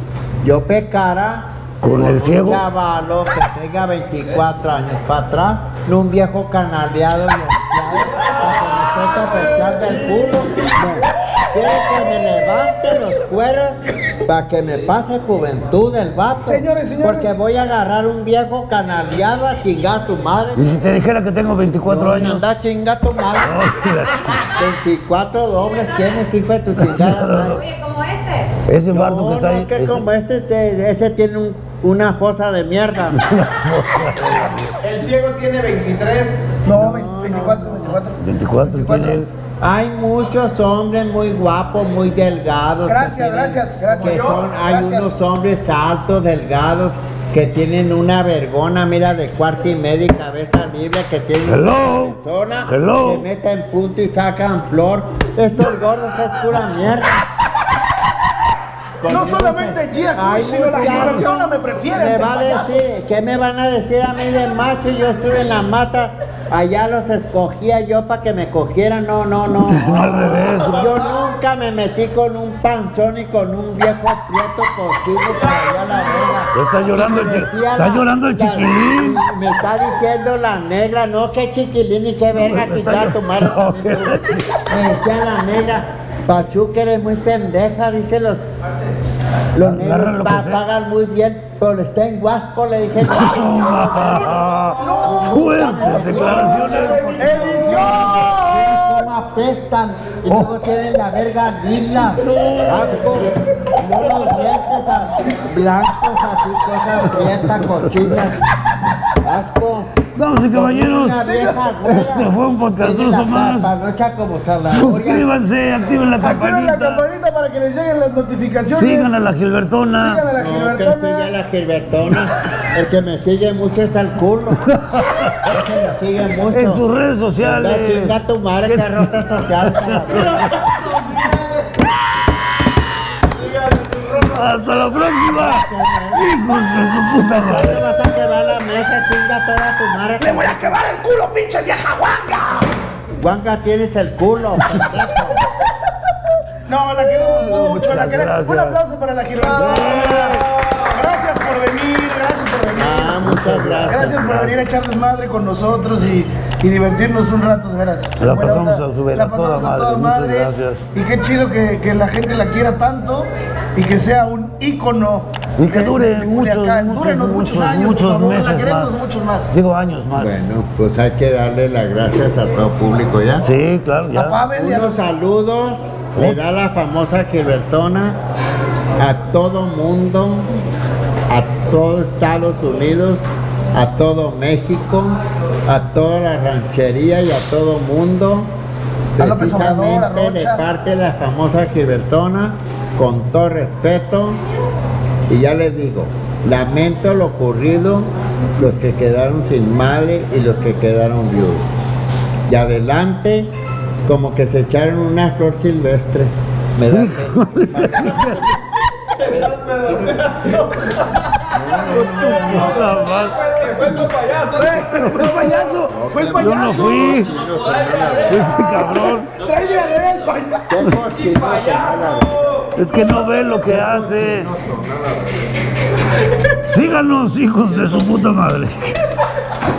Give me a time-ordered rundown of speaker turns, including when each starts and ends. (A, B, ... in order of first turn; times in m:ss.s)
0:00.4-0:20.6 A
0:01.8-0:02.6 B
0:16.4-0:17.4 C
0:20.6-0:22.4 B
0:21.9-0:23.6 A
0:23.4-0:24.5 B
0:24.6-0:27.6 A
0:26.7-0:27.7 B
0:28.6-0:30.1 B
0:28.9-0:33.2 A
0:33.1-0:34.7 B
0:34.8-0:36.5 D
0:36.6-0:39.2 C
0:36.7-0:38.0 A
0:38.2-0:39.3 B
0:39.6-0:57.2 A
0:42.9-0:45.1 C
0:51.4-0:53.2 B
0:59.0-1:28.5 A
0:59.0-1:02.8 C
1:00.8-1:01.2 B
1:09.6-1:10.8 B
1:16.5-1:19.2 B
1:22.3-1:24.6 B
1:29.5-1:34.2 A
1:29.6-1:30.6 B
1:33.0-1:38.2 B
1:34.8-1:35.3 C
1:35.0-1:48.4 A
1:35.8-1:36.5 C
1:37.1-1:38.8 C
1:42.2-1:43.3 B
1:47.6-1:47.9 B
1:49.2-1:50.0 A
1:50.1-1:53.7 B
1:50.5-1:55.3 A
1:51.2-1:51.6 C
1:54.7-1:57.0 B
1:56.2-1:59.2 C
1:58.8-2:00.2 B
1:59.9-2:01.3 C
2:00.4-2:04.6 A
2:04.6-2:05.6 B
2:05.5-2:06.8 A
2:06.5-2:08.1 B
2:07.4-2:10.5 A
2:08.6-2:10.7 B
2:13.4-2:14.4 D
2:14.3-2:17.8 B
2:15.2-2:16.3 A
2:17.4-2:20.8 A
2:20.2-2:22.7 C
2:23.2-2:25.4 A
2:26.7-2:30.4 C
2:27.3-2:28.8 B
2:29.5-2:30.5 B
2:30.9-2:33.3 C
2:32.8-2:34.3 A
2:33.2-2:34.6 B
2:33.9-2:49.5 C
2:38.2-2:40.8 B
2:45.6-2:50.4 B
2:50.1-2:53.5 A
2:53.4-2:54.4 B
2:54.1-2:55.1 C
2:54.5-2:58.2 A
2:59.0-3:00.5 A
3:01.3-3:08.5 A
3:09.2-3:14.4 A
3:09.2-3:10.6 C
3:15.3-3:21.8 A
3:22.5-3:23.5 A
3:24.0-3:28.5 A
3:26.9-3:28.5 B
3:29.2-3:30.7 A
3:29.3-3:30.8 D
3:31.4-3:33.0 A
3:32.0-3:34.1 B
3:32.8-3:34.6 D
3:34.5-3:37.2 C
3:34.9-3:35.6 B
3:35.9-3:38.7 A
3:36.4-3:37.4 B
3:38.2-3:39.3 B
3:38.6-3:40.7 C
3:40.7-3:42.7 A
3:41.3-3:41.8 D
3:42.8-3:44.5 B
3:43.6-3:45.4 A
3:46.7-3:49.0 B